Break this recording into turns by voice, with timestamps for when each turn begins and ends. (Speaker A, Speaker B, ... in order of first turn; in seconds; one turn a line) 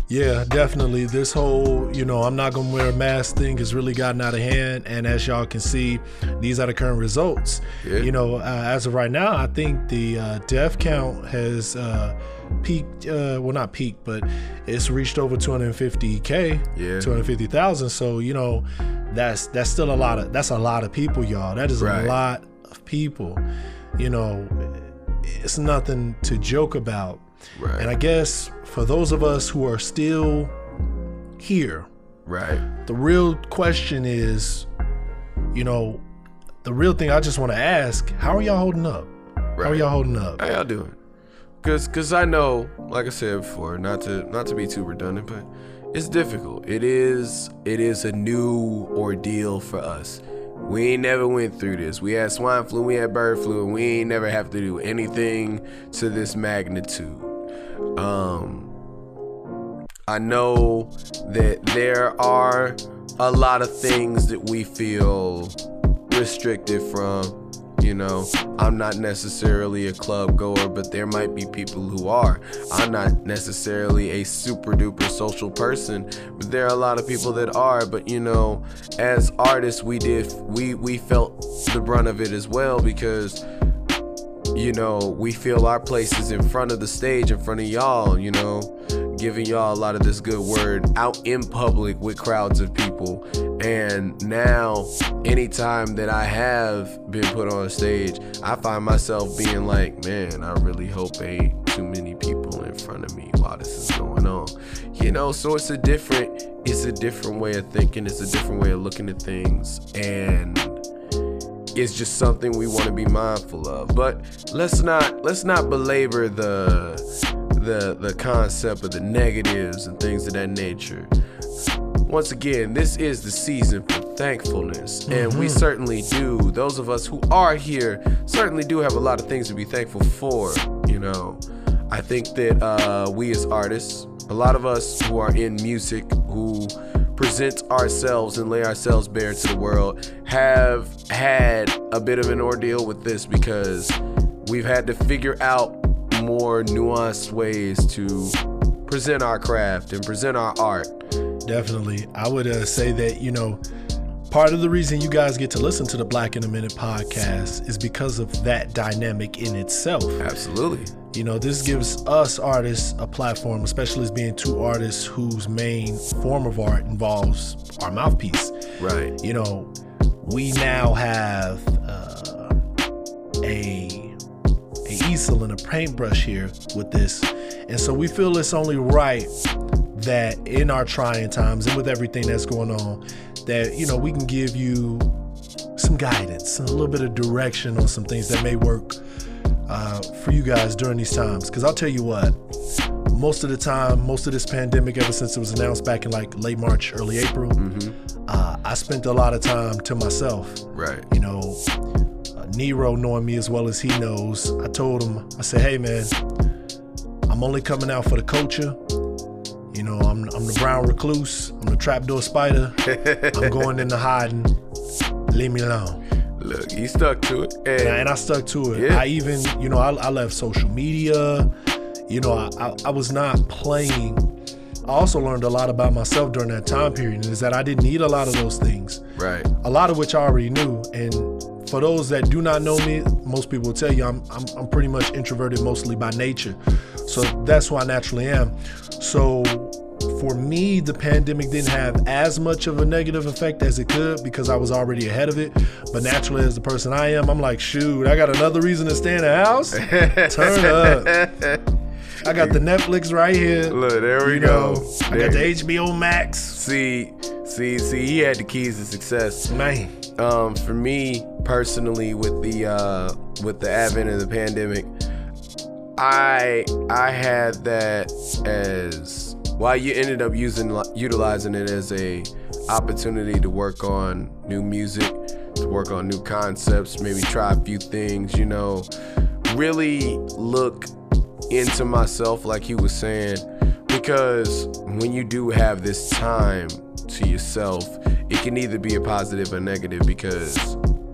Speaker A: 0.1-23.4
Speaker B: 7.8-8.1
Speaker B: 16.8-17.1
Speaker B: 21.8-22.2
Speaker A: 24.0-27.2
Speaker B: 27.6-27.9
Speaker A: 27.8-30.5
Speaker A: 31.4-31.9
Speaker B: 32.3-32.7
Speaker A: 32.9-34.7
Speaker A: 35.5-36.0
Speaker A: 36.6-39.1
Speaker B: 39.6-41.0
Speaker A: 39.6-40.4
Speaker B: 41.6-57.3
Speaker B: 58.0-58.7
Speaker B: 60.1-83.4
Speaker B: 84.5-110.8
Speaker B: 111.8-121.1
Speaker B: 122.1-150.9
Speaker A: 125.1-125.7
Speaker A: 151.4-153.6
Speaker A: 154.3-160.2
Speaker B: 160.2-160.9
Speaker A: 161.1-168.6
Speaker B: 168.8-169.1
Speaker A: 169.2-169.7
Speaker A: 170.2-172.6
Speaker A: 173.4-174.2
Speaker A: 174.9-179.3
Speaker A: 179.9-185.1
Speaker A: 185.8-189.0
Speaker A: 189.7-192.4
Speaker A: 193.1-197.6
Speaker B: 197.6-198.0
Speaker A: 198.3-201.6
Speaker B: 200.7-201.1
Speaker A: 202.3-206.2
Speaker A: 207.3-208.8
Speaker A: 209.7-214.6
Speaker B: 212.8-213.6
Speaker A: 215.3-216.0
Speaker B: 216.4-218.0
Speaker A: 217.8-221.5
Speaker B: 218.7-219.1
Speaker A: 222.1-224.3
Speaker A: 224.9-229.0
Speaker B: 229.2-229.5
Speaker A: 229.6-251.2
Speaker B: 249.7-251.6
Speaker B: 252.2-252.6
Speaker A: 252.2-256.6
Speaker B: 253.7-255.5
Speaker B: 256.5-259.5
Speaker A: 259.5-259.9
Speaker B: 260.2-264.9
Speaker B: 266.0-278.9
Speaker B: 279.5-280.9
Speaker B: 281.5-290.8